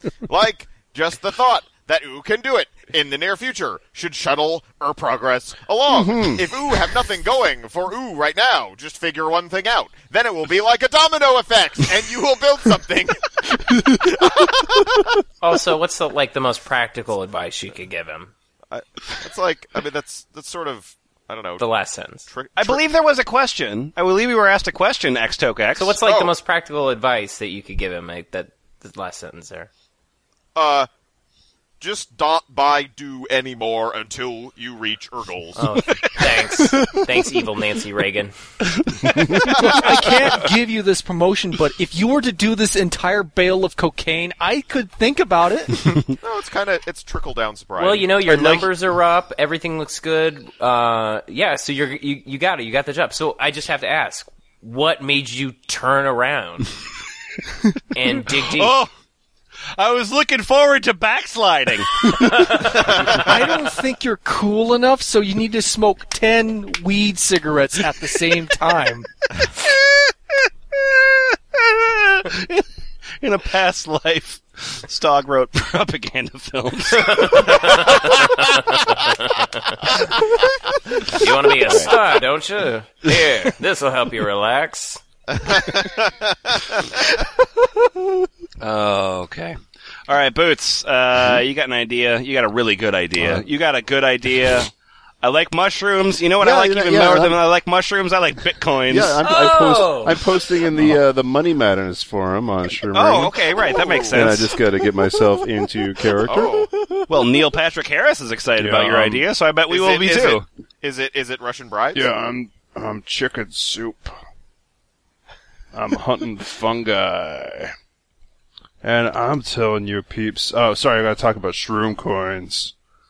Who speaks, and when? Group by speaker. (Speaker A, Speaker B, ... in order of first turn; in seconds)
Speaker A: 0.2-15.2, 18.7-21.6, 22.3-22.8, 26.0-26.3, 30.6-30.9, 31.8-35.6, 39.5-39.9, 46.2-48.1, 85.3-86.9, 103.6-104.2, 106.2-106.7, 109.7-112.0
Speaker B: 5.9-6.4, 39.1-39.4, 93.2-93.5, 96.4-97.4, 98.9-103.5, 104.1-106.6, 108.6-109.3, 111.9-114.2, 115.7-117.7, 118.8-122.7
Speaker C: 15.4-18.3, 21.6-22.3, 25.8-29.7, 35.6-38.4, 47.8-56.7, 57.9-58.8, 62.2-62.7, 77.0-79.8, 81.0-85.0, 99.2-100.4
Speaker D: 22.6-26.0, 48.3-48.7, 58.4-58.9, 59.7-62.3, 70.8-72.7, 73.2-77.5, 81.6-81.9, 88.6-94.7, 95.2-99.2, 102.9-104.5, 107.1-110.5
Speaker E: 39.4-46.0, 63.0-69.1